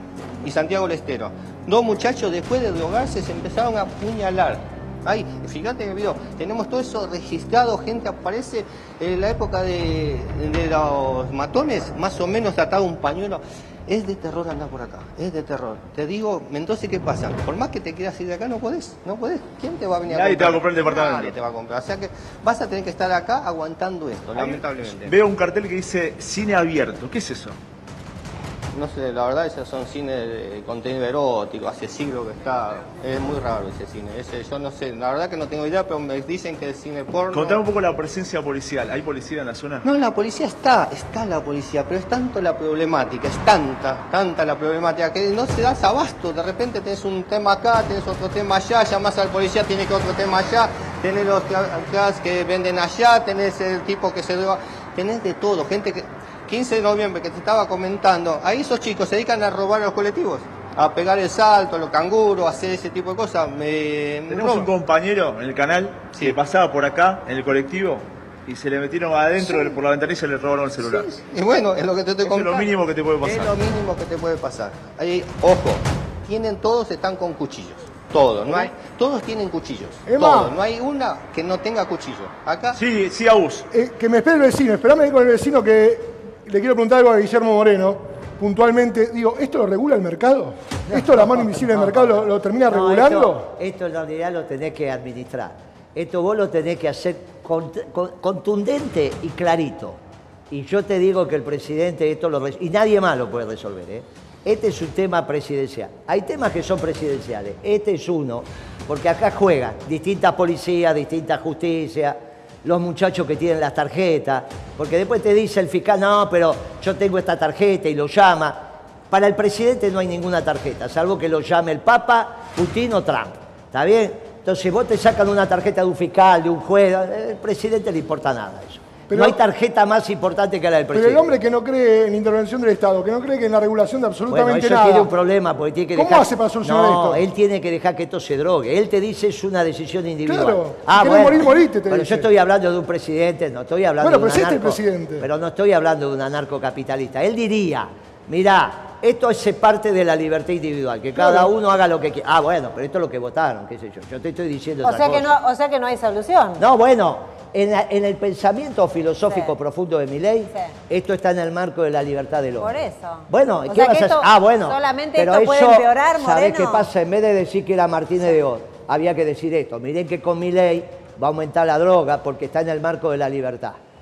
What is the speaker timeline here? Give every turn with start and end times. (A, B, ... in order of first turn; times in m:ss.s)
0:00.4-0:25.1 A
0:20.1-0:21.3 B
0:24.3-0:27.6 B
0:28.7-0:37.6 A
0:37.3-0:39.8 B
0:39.8-1:04.7 A
1:04.3-1:11.1 B
1:09.4-1:09.8 A
1:10.8-1:22.8 A
1:12.2-1:13.6 B
1:20.0-1:20.6 C
1:22.7-1:23.7 B
1:23.7-1:33.5 C
1:30.9-2:11.4 D
2:09.1-2:09.4 C
2:10.9-2:15.1 C
2:14.3-2:35.3 D
2:16.0-2:17.2 C
2:20.2-2:22.3 C
2:24.0-2:25.3 C
2:31.2-2:31.5 C
2:34.8-2:36.6 E
2:36.6-2:42.7 D
2:42.6-2:46.9 E
2:43.3-2:53.8 D